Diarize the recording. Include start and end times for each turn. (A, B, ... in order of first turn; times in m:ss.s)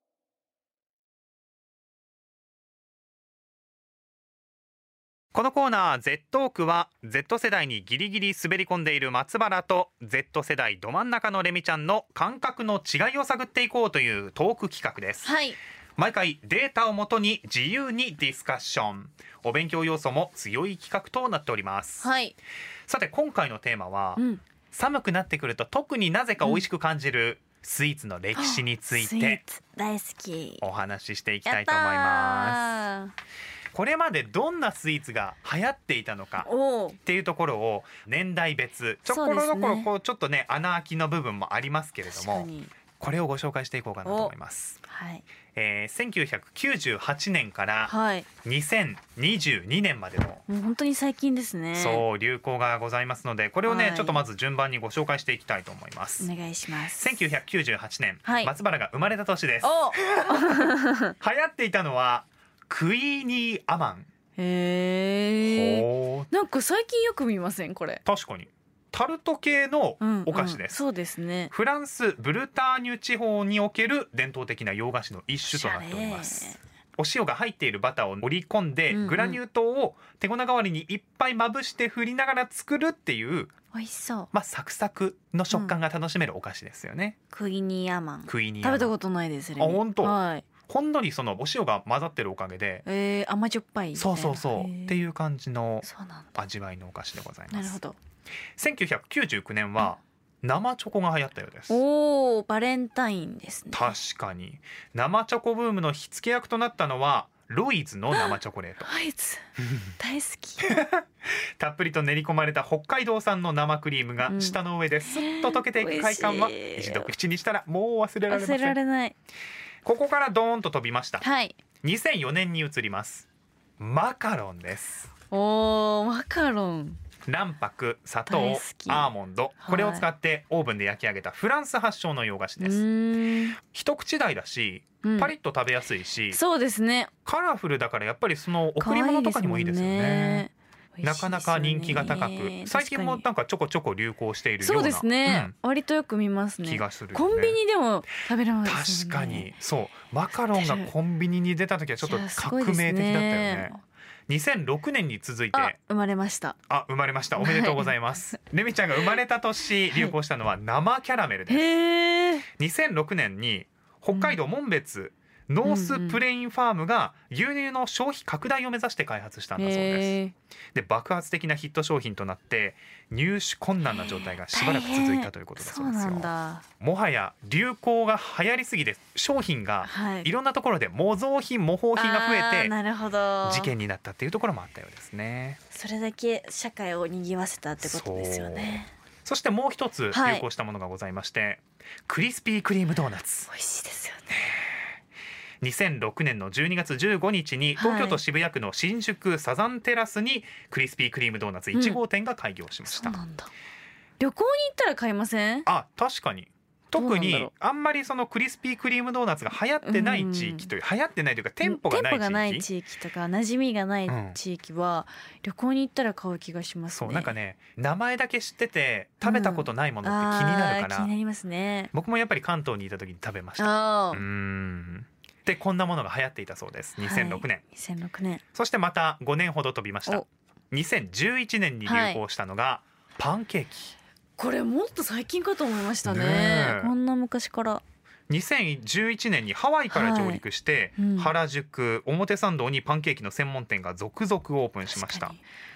0:05.3-0:15.3 A
0:15.2-0:15.6 B
0:16.0-0:22.1 A
0:22.0-0:22.4 B
0:22.9-0:29.4 A
0:24.2-0:24.4 B
0:28.4-0:30.6 B
0:30.6-0:32.6 A
0:31.5-0:33.1 B
0:33.7-0:36.5 A
0:36.4-0:37.0 B
0:37.0-0:42.5 A
0:39.1-0:39.9 B
0:42.1-0:42.7 B
0:43.0-0:44.8 A
0:44.0-0:44.3 B
0:44.9-0:45.2 B
0:45.5-0:47.9 A
0:47.9-0:48.3 B
0:48.4-0:50.4 A
0:50.5-0:52.0 B
0:51.8-0:56.3 A
0:53.7-0:54.2 B
0:56.2-0:57.1 B
0:57.0-1:00.7 A
0:58.2-0:58.5 B
0:59.6-1:01.1 B
1:01.2-1:04.1 A
1:04.4-1:08.0 B
1:05.5-1:06.3 A
1:08.0-1:10.8 A
1:10.0-1:11.5 B
1:11.5-1:23.5 A
1:15.5-1:16.6 B
1:18.9-1:19.4 B
1:23.7-1:24.3 B
1:24.3-1:27.2 A
1:27.3-1:30.4 B
1:28.3-1:28.9 A
1:29.6-1:32.8 A
1:32.9-1:35.0 B
1:34.0-1:37.8 A
1:35.8-1:36.4 B
1:37.5-1:38.0 B
1:38.6-1:41.8 A
1:41.7-1:44.0 B
1:43.7-1:48.9 A
1:48.1-1:49.4 B
1:49.6-1:49.9 A
1:50.0-1:50.7 B
1:50.6-1:58.8 A
1:54.3-1:57.1 B
1:58.3-1:59.2 B
1:59.8-2:01.2 A
2:01.2-2:01.6 B
2:01.8-2:03.3 A
2:03.8-2:05.1 A
2:05.3-2:07.0 B
2:07.3-2:12.8 A
2:08.3-2:09.1 B
2:09.6-2:10.0 B
2:12.6-2:13.6 B
2:13.7-2:16.4 A
2:15.0-2:15.3 B
2:16.3-2:17.1 B
2:17.2-2:20.5 A
2:18.8-2:23.2 B
2:21.0-2:25.5 A
2:24.6-2:29.5 B
2:26.6-2:27.6 A
2:28.6-2:35.8 A
2:30.6-2:30.9 B
2:32.0-2:33.8 B
2:35.5-2:36.6 B
2:36.7-2:41.7 A
2:37.4-2:37.9 B
2:41.5-2:42.5 B
2:42.6-2:50.1 A
2:45.6-2:46.2 B
2:49.6-2:50.3 B
2:50.7-3:02.7 A
2:53.9-2:56.6 B
2:59.8-3:00.3 B
3:02.0-3:03.7 B
3:03.4-3:05.6 A
3:05.7-3:08.9 B
3:07.8-3:13.5 A
3:10.1-3:10.4 B
3:13.5-3:14.3 B
3:14.3-3:14.6 A
3:15.6-3:23.2 A
3:17.8-3:18.2 B
3:21.7-3:22.0 B
3:22.9-3:23.5 B
3:24.2-3:25.7 B
3:25.7-3:32.7 A
3:27.0-3:27.5 B
3:29.8-3:30.7 B
3:31.6-3:37.3 B
3:34.1-3:34.4 A
3:36.9-3:41.1 A
3:39.2-3:41.9 B
3:41.9-3:47.6 A
3:43.6-3:44.2 B
3:47.0-3:48.4 B
3:48.5-3:53.9 A
3:51.9-3:52.2 B
3:54.4-3:57.8 B
3:56.0-3:56.9 A
3:58.3-4:05.4 A
3:59.9-4:00.4 B
4:01.0-4:01.3 B
4:04.9-4:05.4 B